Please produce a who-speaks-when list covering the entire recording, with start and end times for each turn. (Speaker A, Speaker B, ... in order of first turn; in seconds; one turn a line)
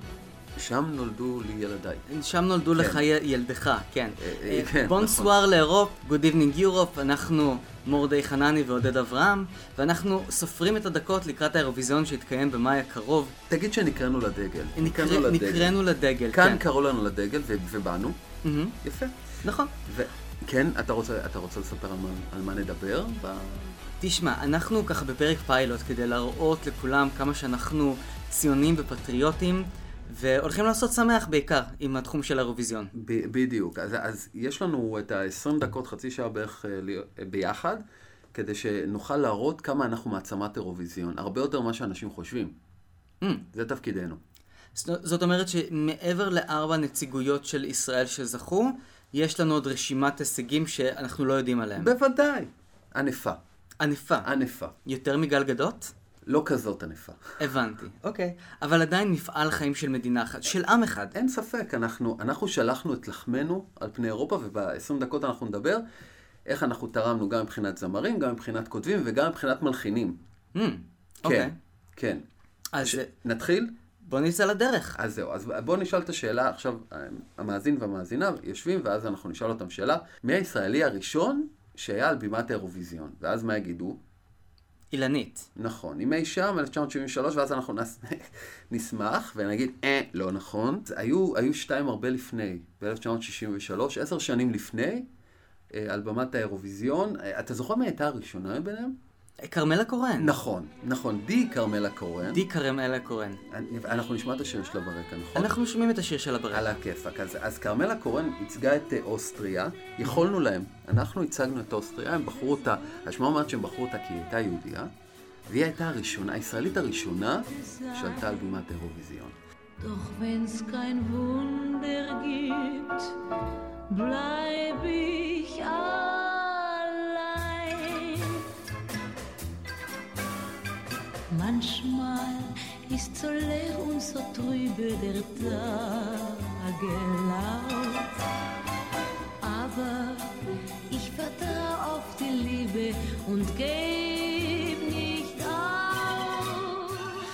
Speaker A: 0.6-2.1
Speaker B: 2.1-13.3
Speaker A: 2.8-3.0
Speaker A: 4.2-5.4
Speaker A: 13.5-15.8
Speaker B: 14.8-16.6
Speaker A: 16.3-18.2
Speaker B: 18.4-18.8
Speaker A: 18.8-19.2
Speaker B: 19.4-19.7
Speaker A: 19.7-23.8
Speaker B: 24.0-32.9
Speaker A: 32.9-42.5
Speaker A: 43.5-44.2
Speaker B: 44.8-51.9
Speaker A: 51.8-53.4
Speaker B: 53.8-54.3
Speaker A: 54.2-54.8
Speaker B: 54.9-55.9
Speaker A: 56.3-57.2
Speaker B: 57.4-61.1
Speaker A: 61.1-65.8
Speaker A: 66.5-70.2
Speaker B: 70.5-71.5
Speaker A: 71.2-72.2
Speaker B: 72.7-73.1
Speaker A: 72.8-73.7
Speaker B: 74.0-75.0
Speaker A: 75.0-84.0
Speaker B: 84.9-85.5
Speaker A: 85.6-95.1
Speaker A: 95.7-99.0
Speaker B: 99.4-100.3
Speaker A: 100.2-102.4
Speaker B: 102.3-103.4
Speaker A: 103.5-105.5
Speaker B: 105.3-106.8
Speaker A: 106.5-114.9
Speaker A: 115.5-119.4
Speaker C: 117.5-118.5
Speaker C: 119.8-123.2
Speaker C: 123.9-128.5
Speaker C: 131.3-138.2
Speaker C: 139.4-140.4
Speaker C: 140.9-147.2